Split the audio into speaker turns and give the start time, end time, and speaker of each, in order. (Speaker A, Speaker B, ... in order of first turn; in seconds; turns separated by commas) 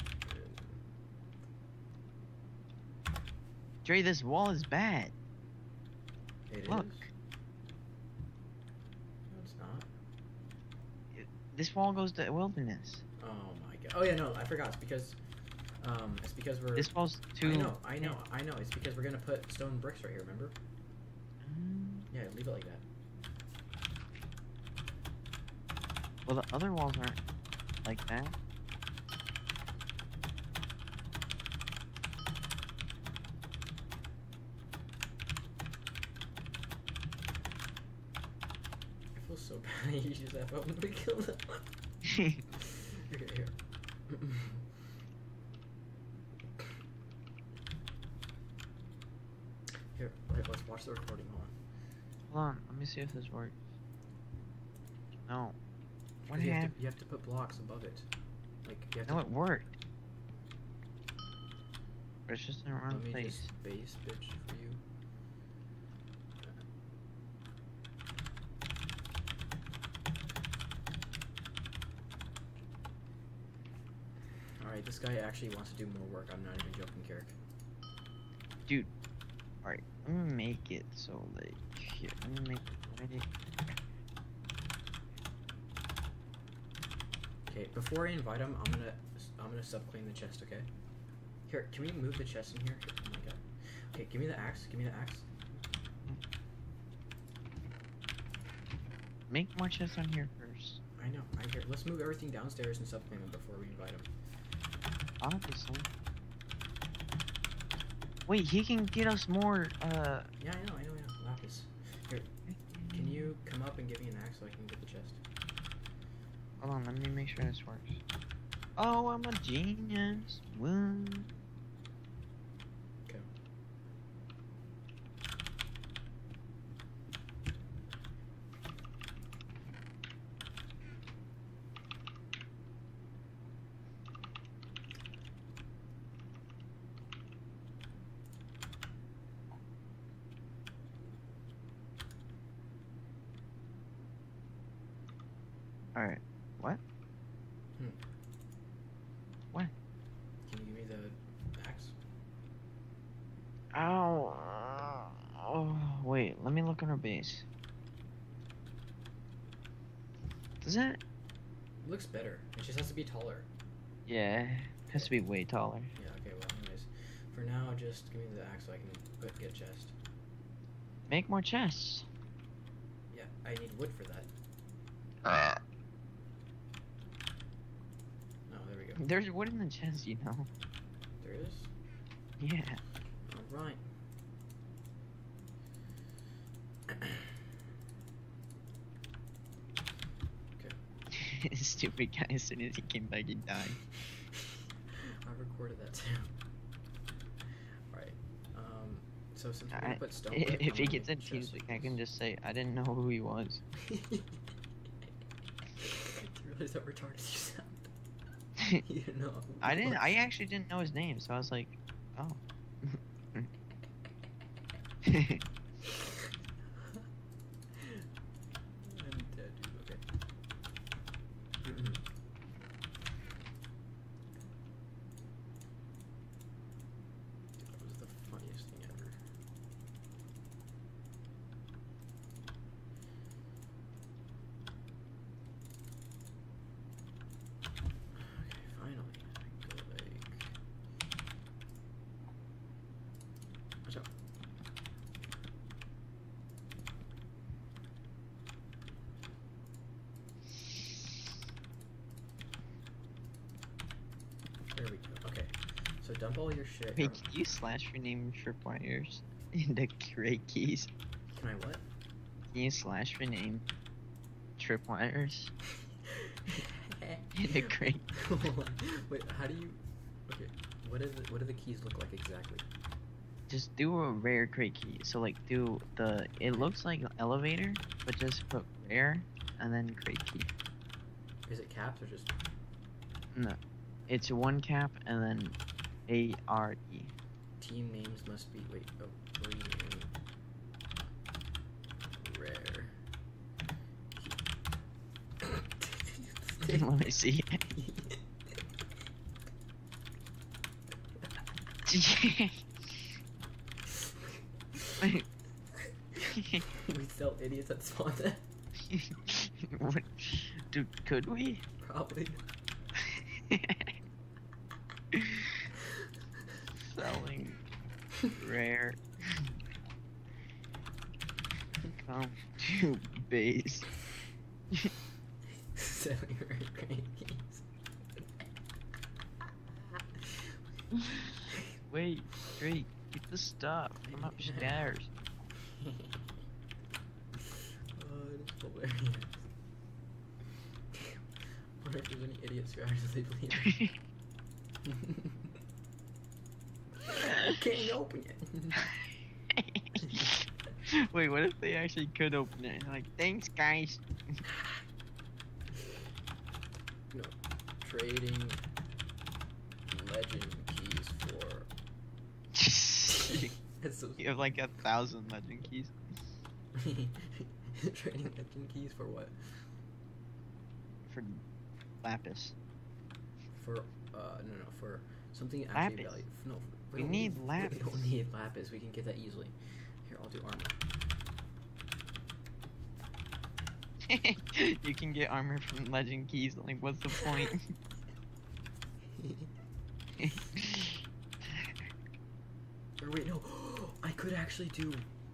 Speaker A: 0.2-0.8, Speaker B: 3.8-5.1, Speaker A: 6.5-7.1, Speaker B: 6.7-7.1, Speaker A: 9.3-9.9, Speaker B: 11.1-13.0, Speaker A: 13.2-15.2, Speaker A: 15.8-20.6, Speaker B: 16.8-18.2, Speaker B: 21.4-22.1, Speaker A: 22.1-22.9, Speaker B: 26.3-27.2, Speaker B: 27.8-28.4, Speaker A: 39.1-41.7, Speaker B: 42.1-42.4, Speaker A: 42.5-44.7, Speaker A: 49.9-51.5, Speaker B: 52.3-53.6, Speaker B: 55.3-55.6, Speaker A: 56.2-58.1, Speaker B: 56.3-56.7, Speaker A: 58.6-59.3, Speaker B: 59.1-59.7, Speaker B: 62.3-63.5, Speaker A: 62.9-64.8, Speaker A: 74.6-77.3, Speaker B: 79.6-83.3, Speaker A: 87.5-90.7, Speaker A: 91.5-95.5, Speaker B: 99.3-100.8, Speaker A: 101.0-104.1, Speaker B: 105.2-105.9, Speaker B: 108.3-110.3, Speaker A: 110.4-112.3, Speaker B: 112.5-113.3, Speaker A: 112.9-115.2, Speaker B: 116.6-118.0, Speaker B: 118.8-121.3, Speaker B: 145.9-146.8, Speaker A: 150.5-152.0, Speaker B: 153.7-157.5, Speaker B: 160.6-161.0, Speaker A: 161.8-163.5, Speaker B: 164.1-165.9, Speaker A: 165.9-169.9, Speaker B: 171.1-172.1, Speaker A: 173.1-174.3, Speaker B: 175.2-175.6, Speaker A: 178.5-179.1, Speaker B: 179.0-180.5, Speaker A: 181.2-181.7, Speaker B: 182.4-182.8, Speaker A: 183.2-183.8, Speaker A: 186.9-187.3, Speaker B: 191.1-193.8, Speaker A: 195.2-196.4, Speaker A: 197.9-202.0, Speaker B: 199.7-203.6, Speaker A: 203.8-204.4, Speaker A: 205.8-207.9, Speaker A: 208.8-210.2, Speaker B: 209.6-213.5, Speaker B: 215.0-215.4, Speaker A: 215.8-217.1, Speaker A: 217.7-218.1, Speaker A: 218.8-220.0, Speaker A: 221.6-222.0, Speaker A: 227.6-229.2, Speaker A: 238.2-240.6, Speaker A: 243.8-244.1, Speaker A: 254.7-257.4, Speaker B: 256.9-260.9, Speaker A: 261.3-261.9, Speaker B: 262.5-263.7, Speaker B: 264.6-265.5, Speaker A: 266.2-272.7, Speaker B: 267.4-268.1, Speaker B: 273.5-280.5, Speaker A: 276.5-276.8, Speaker A: 281.5-282.3, Speaker B: 283.3-287.1, Speaker A: 287.6-290.1, Speaker A: 292.0-293.0, Speaker A: 294.1-294.4, Speaker A: 295.4-296.9, Speaker B: 296.6-297.6, Speaker A: 297.7-298.2, Speaker B: 301.9-303.1, Speaker A: 303.9-305.0, Speaker B: 305.0-305.3, Speaker B: 306.3-306.6, Speaker A: 306.8-308.4, Speaker B: 308.9-311.6, Speaker A: 311.8-312.4, Speaker B: 313.0-313.9, Speaker B: 315.1-315.6, Speaker B: 316.8-317.6, Speaker B: 318.4-319.6, Speaker B: 321.9-323.9, Speaker A: 325.8-327.7, Speaker A: 330.2-330.4, Speaker B: 331.9-335.1, Speaker A: 334.1-334.9, Speaker A: 335.6-336.3, Speaker A: 337.9-339.5, Speaker A: 340.9-341.2, Speaker A: 341.8-343.9, Speaker B: 343.6-343.9, Speaker A: 344.9-345.4, Speaker A: 347.1-348.9, Speaker B: 347.2-347.6, Speaker B: 348.8-354.4, Speaker A: 350.0-350.3, Speaker A: 357.1-358.6, Speaker A: 359.9-361.7, Speaker B: 362.5-363.5, Speaker A: 363.1-364.4, Speaker B: 364.2-365.9, Speaker A: 366.8-369.7, Speaker B: 371.1-371.4, Speaker B: 372.0-372.6, Speaker A: 373.6-380.8, Speaker B: 375.8-376.2, Speaker B: 376.9-378.1, Speaker B: 384.1-387.7, Speaker A: 389.2-389.5, Speaker B: 390.2-391.0, Speaker A: 393.0-395.1